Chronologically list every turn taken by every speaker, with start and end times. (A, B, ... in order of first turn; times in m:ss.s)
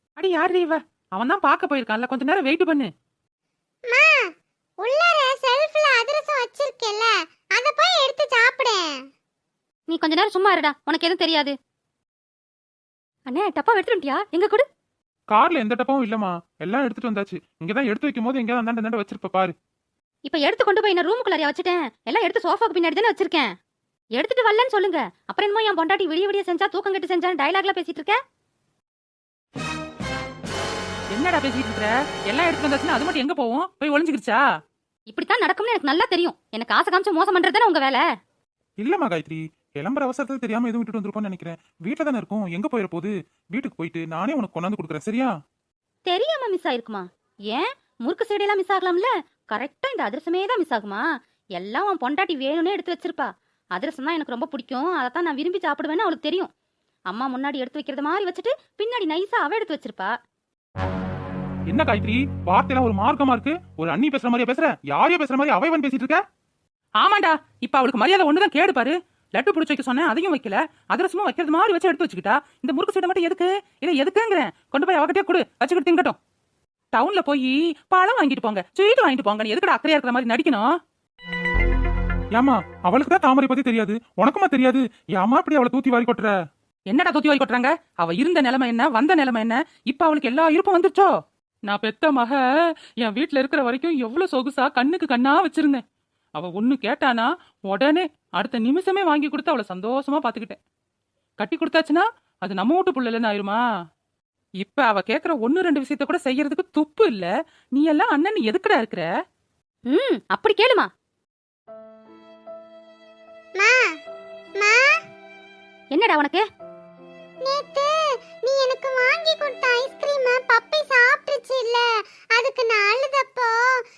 0:00.2-0:02.9 A
0:03.9-0:04.3 B
0:04.8-0:08.8 B
0:09.9-0:11.5 C
0:13.3-0:14.7 C
0:15.3-0:19.5 D
0:20.2-0:23.5 C
0:24.1-0:28.2 C
0:31.1-0:34.4 A
0:35.1-0:38.0 C
0:38.8-0:45.3 D
0:46.0-0:51.0 C
0:51.6-0:56.5 C
0:57.1-1:00.2 C
1:01.7-1:06.2 D
1:07.0-1:16.2 A
1:16.9-1:20.7 A
1:22.4-1:26.3 D
1:26.9-1:31.1 A
1:31.7-1:32.4 A
1:33.0-1:35.8 A
1:36.4-1:40.6 A
1:41.4-1:43.6 A
1:44.6-1:49.1 A
1:49.9-1:50.9 C
1:53.6-1:53.9 B
1:54.6-1:55.0 B
1:55.9-1:56.4 C
1:57.4-1:57.9 B
1:58.4-2:01.8 B
2:02.3-2:03.5 B